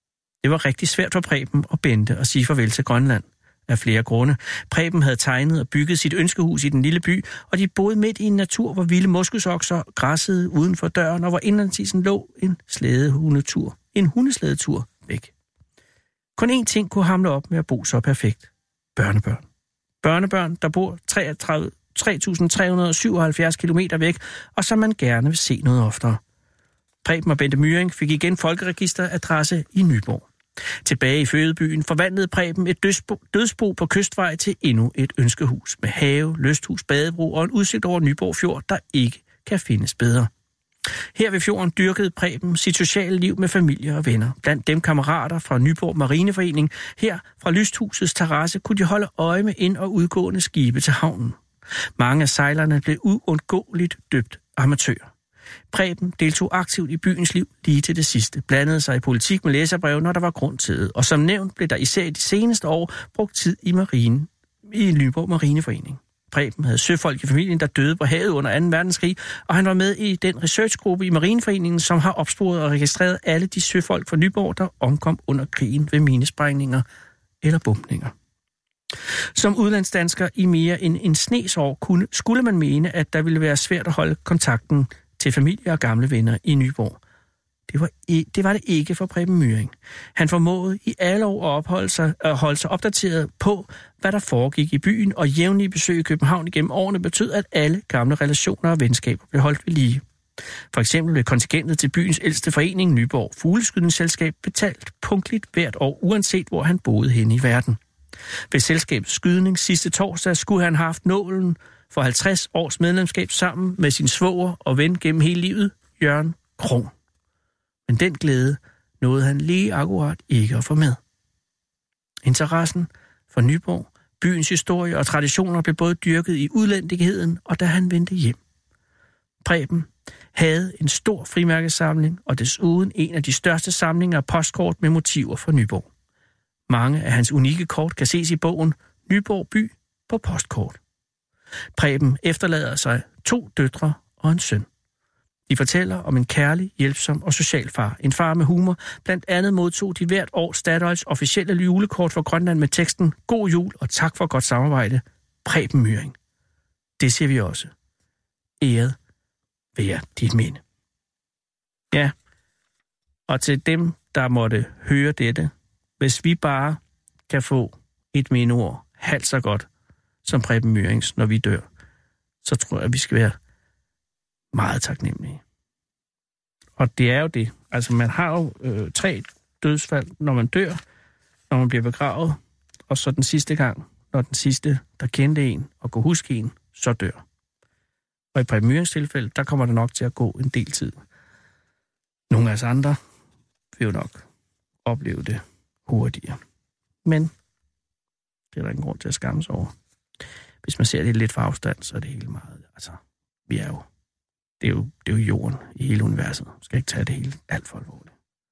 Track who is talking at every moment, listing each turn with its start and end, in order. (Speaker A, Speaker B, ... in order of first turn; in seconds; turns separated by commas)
Speaker A: 0.4-15.3, Speaker A: 16.4-19.4, Speaker A: 20.0-26.2, Speaker A: 27.0-30.2, Speaker A: 30.8-40.3, Speaker A: 41.1-51.4, Speaker A: 52.0-55.1, Speaker A: 55.7-76.8, Speaker A: 77.4-78.1, Speaker A: 79.3-87.0, Speaker A: 87.7-100.0, Speaker A: 100.7-107.8, Speaker A: 108.5-116.9, Speaker A: 117.9-121.0, Speaker A: 122.2-128.4, Speaker A: 129.4-135.9, Speaker A: 136.7-140.8, Speaker A: 141.8-144.7, Speaker A: 145.5-156.1, Speaker A: 157.0-157.7, Speaker A: 158.6-158.9, Speaker A: 159.8-160.6, Speaker A: 163.3-169.7, Speaker A: 170.2-171.7, Speaker A: 172.4-173.4, Speaker A: 174.5-175.4, Speaker A: 176.8-180.8, Speaker A: 181.5-182.4, Speaker A: 182.9-187.2, Speaker A: 188.3-190.9, Speaker A: 192.3-193.0, Speaker A: 193.8-194.2, Speaker A: 194.8-196.4, Speaker A: 197.1-197.3, Speaker A: 198.5-199.7, Speaker A: 200.6-203.8, Speaker A: 204.6-208.1